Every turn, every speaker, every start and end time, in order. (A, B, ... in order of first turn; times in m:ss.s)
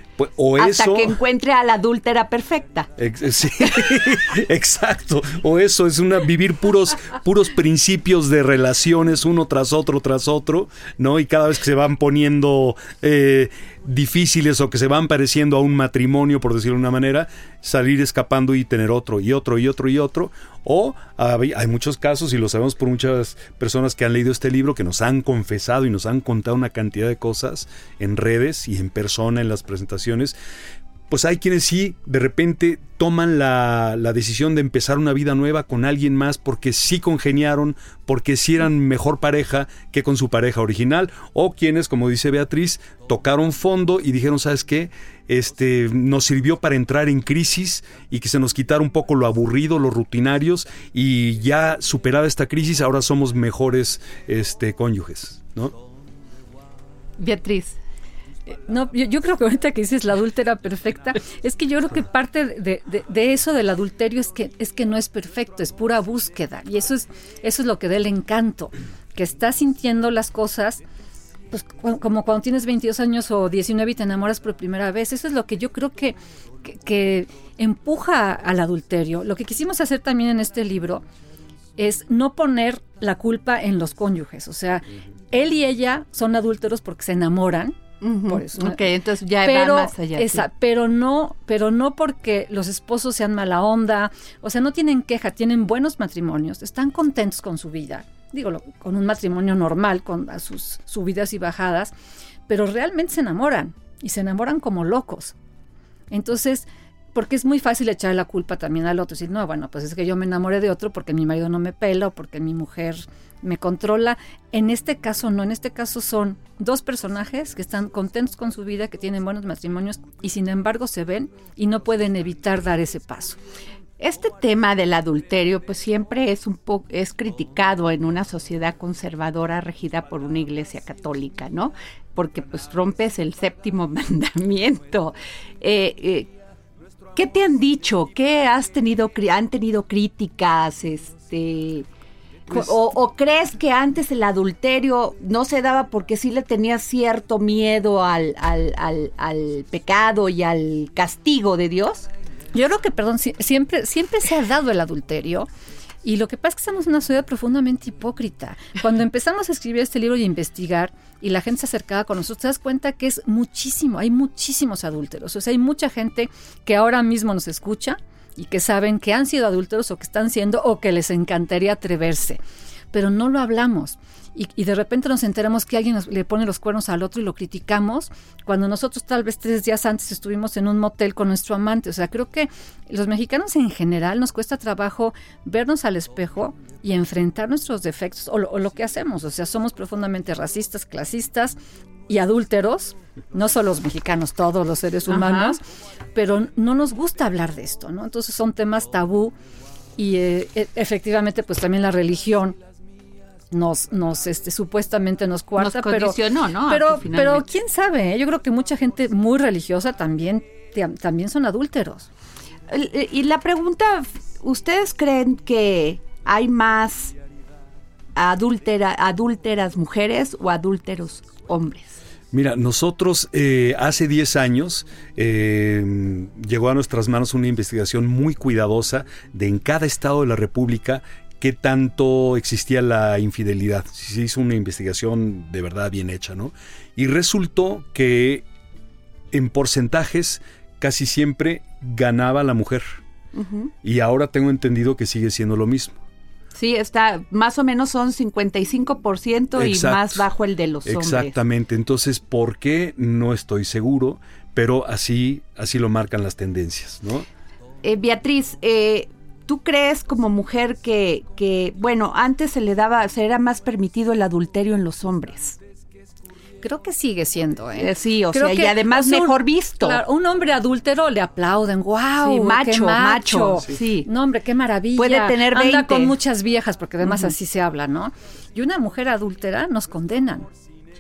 0:00.2-0:01.2 A
0:00.6-0:02.9 B
0:03.0-0:30.4 A
0:31.1-0:55.8 A
0:57.2-0:57.8 B
0:58.5-1:10.8 C
1:11.5-1:21.0 C
1:21.8-1:28.8 C
1:28.0-1:30.5 B
1:29.4-1:41.9 C
1:42.5-1:45.4 C
1:46.1-2:03.4 C
2:04.0-2:16.3 B
2:17.1-2:21.9 B
2:22.5-2:32.1 B
2:32.5-2:35.5 C
2:36.0-2:52.4 C
2:52.9-3:11.6 C
3:12.1-3:15.6 C
3:15.1-3:15.6 B
3:16.2-3:19.3 C
3:20.0-3:22.6 C
3:23.5-3:32.1 C
3:25.6-3:27.5 B
3:32.7-3:37.2 B
3:38.2-3:42.0 B
3:42.3-3:58.4 A
3:59.3-4:03.0 A
4:03.3-4:03.7 B
4:03.8-4:06.0 A
4:06.6-4:11.4 B
4:09.6-4:10.3 A
4:10.8-4:17.3 A
4:17.8-4:25.6 B
4:26.6-4:40.5 C
4:27.8-4:30.0 B
4:32.2-4:34.1 B
4:35.0-4:36.2 B
4:37.0-4:37.3 B